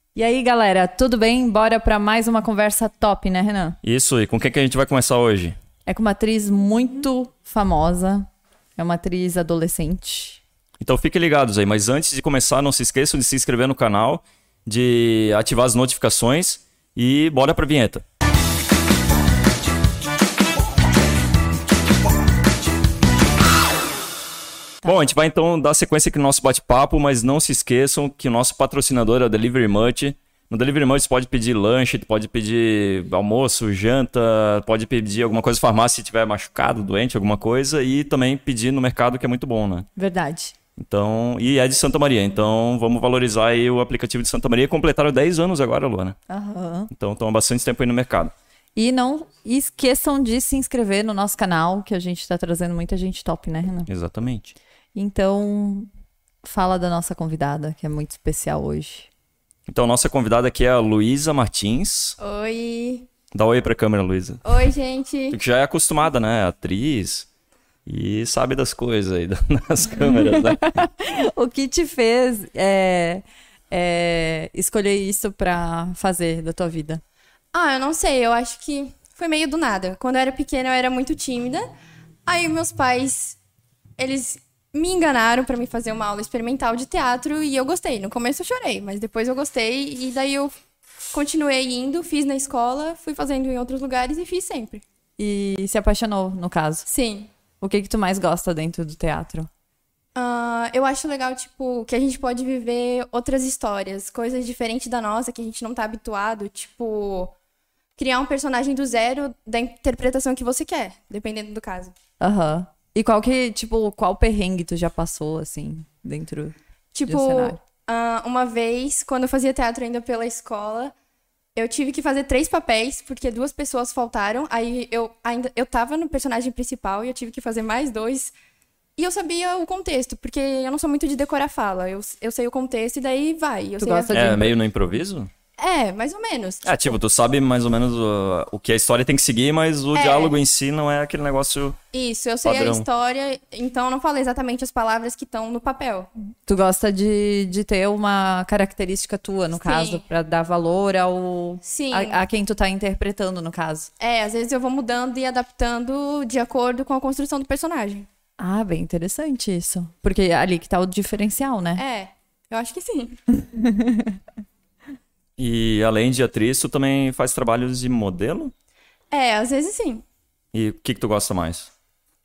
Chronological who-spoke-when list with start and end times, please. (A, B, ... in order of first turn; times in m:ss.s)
0:00.1-0:03.8 A
0:03.8-0:05.6 B
0:05.8-0:10.4 A
0:10.8-0:18.0 B
0:24.8-0:39.9 B
0:40.0-0:40.5 A
0:40.8-0:46.2 B
0:46.3-0:46.9 A
0:46.9-0:48.3 B
0:48.7-0:53.9 A
0:53.9-0:54.6 B
0:54.9-0:55.9 A
0:56.4-0:59.1 A
0:59.7-1:02.2 B
1:02.2-1:03.1 C
1:03.3-1:04.4 B
1:04.4-1:05.4 C
1:05.3-1:07.3 B
1:07.8-1:10.7 B
1:09.9-1:17.0 A
1:17.5-1:21.6 C
1:22.2-1:23.4 C
1:24.0-1:30.5 C
1:31.1-1:34.8 C
1:35.2-1:36.8 A
1:36.8-1:37.3 C
1:37.6-1:39.5 A
1:40.2-1:47.3 C
1:48.0-1:51.9 C
1:52.2-1:56.5 A
1:56.9-2:00.9 C
1:57.0-1:57.6 A
2:01.6-2:08.3 C
2:09.0-2:14.3 C
2:13.8-2:14.5 A
2:14.1-2:15.3 B
2:15.6-2:17.0 C
2:16.6-2:21.8 B
2:19.9-2:20.4 C
2:21.9-2:26.1 C
2:22.4-2:22.8 B
2:26.4-2:33.9 A
2:29.5-2:30.0 C
2:31.6-2:32.2 C
2:34.0-2:38.1 C
2:38.4-2:41.8 A
2:41.7-2:43.2 C
2:43.4-2:44.2 A
2:45.4-2:48.5 B
2:49.1-2:50.0 C
2:50.5-2:51.7 B